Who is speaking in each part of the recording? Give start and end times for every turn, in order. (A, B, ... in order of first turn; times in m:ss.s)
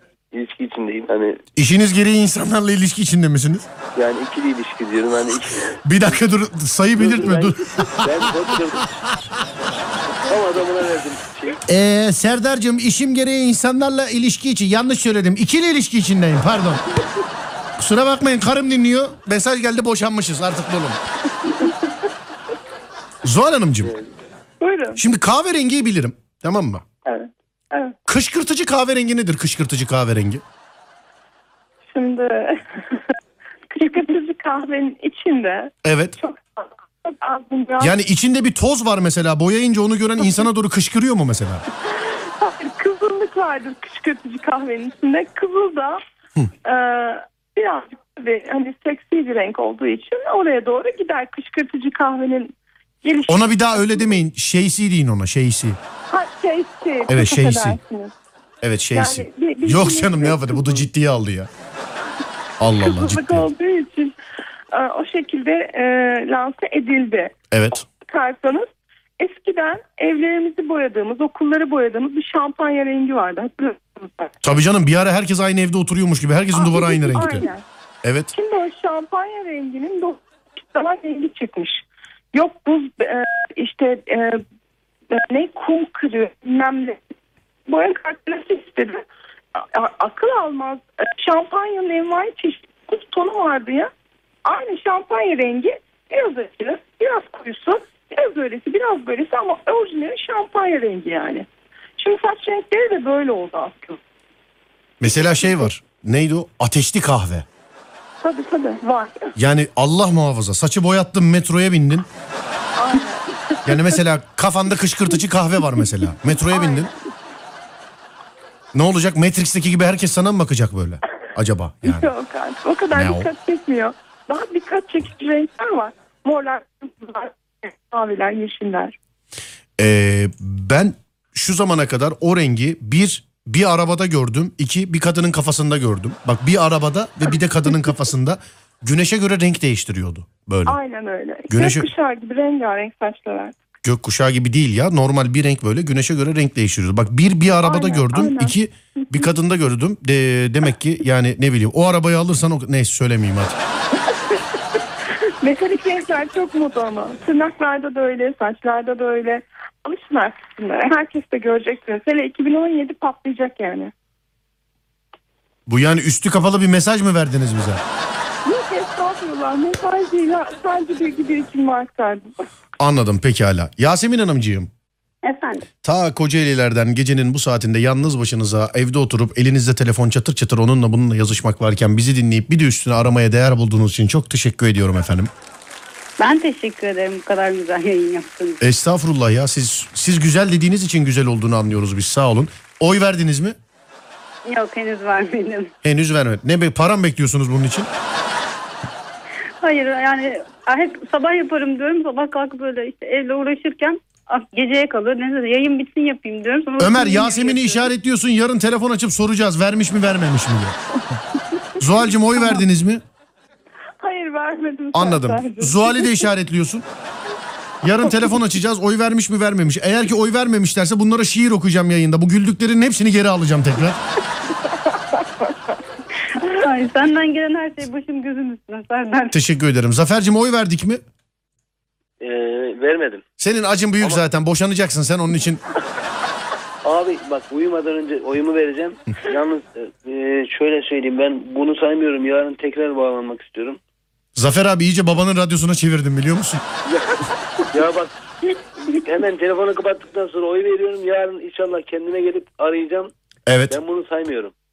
0:00.3-0:01.4 A
0:01.6-0:03.7 B
0:03.9-0:05.8 A
0:05.8-0:08.6 B
0:07.0-0:09.0 A
0:09.1-0:09.4 B
0:10.2-0:11.6 A
0:11.7-0:16.9 B
0:17.8-0:21.0 B
0:21.4-0:21.7 C
0:23.2-0:23.9 B
0:24.6-0:25.0 C
0:25.0-0:26.8 B
0:27.0-0:27.9 C
0:28.1-0:30.4 B
0:31.9-0:33.0 C
0:33.7-0:37.9 C
0:35.8-0:36.2 B
0:37.8-0:41.6 B
0:41.9-0:46.0 C
0:46.6-0:54.1 C
0:53.3-0:55.8 B
0:56.1-0:58.1 C
0:57.1-0:57.8 B
0:58.6-1:01.5 B
0:58.9-1:00.8 C
1:02.6-1:03.5 B
1:02.6-1:04.1 C
1:04.7-1:07.3 C
1:07.5-1:07.8 B
1:08.0-1:14.4 C
1:14.4-1:17.5 B
1:16.5-1:17.6 C
1:18.0-1:18.3 B
1:18.3-1:24.4 C
1:25.1-1:27.0 C
1:27.7-1:29.0 C
1:29.5-1:33.9 C
1:34.4-1:41.5 C
1:42.0-1:44.0 C
1:45.0-1:47.4 B
1:48.2-1:49.3 C
1:49.4-1:52.1 B
1:52.8-1:54.0 C
1:53.6-1:56.9 B
1:56.3-1:57.0 C
1:58.7-2:02.1 B
2:01.8-2:09.0 C
2:02.9-2:03.3 B
2:09.8-2:20.8 B
2:20.7-2:23.6 C
2:21.5-2:21.9 B
2:23.8-2:33.6 B
2:27.6-2:28.5 C
2:34.1-2:34.4 C
2:35.4-2:43.9 C
2:45.7-2:47.8 B
2:48.4-2:52.4 C
2:52.8-2:54.7 B
2:55.2-2:55.6 D
2:55.8-3:05.3 B
3:06.2-3:08.6 D
3:08.6-3:13.6 B
3:14.4-3:15.7 D
3:15.8-3:17.9 B
3:19.6-3:27.9 D
3:26.8-3:30.8 B
3:31.8-3:33.0 B
3:34.0-3:36.1 C
3:34.9-3:36.8 B
3:37.8-3:44.0 B
3:44.7-3:45.5 C
3:46.3-3:49.4 D
3:49.3-3:51.0 B
3:52.2-3:53.2 A
3:53.4-3:55.6 B
3:56.8-4:03.8 A
4:04.4-4:06.6 B
4:06.9-4:13.1 A
4:13.5-4:13.8 B
4:13.7-4:14.5 A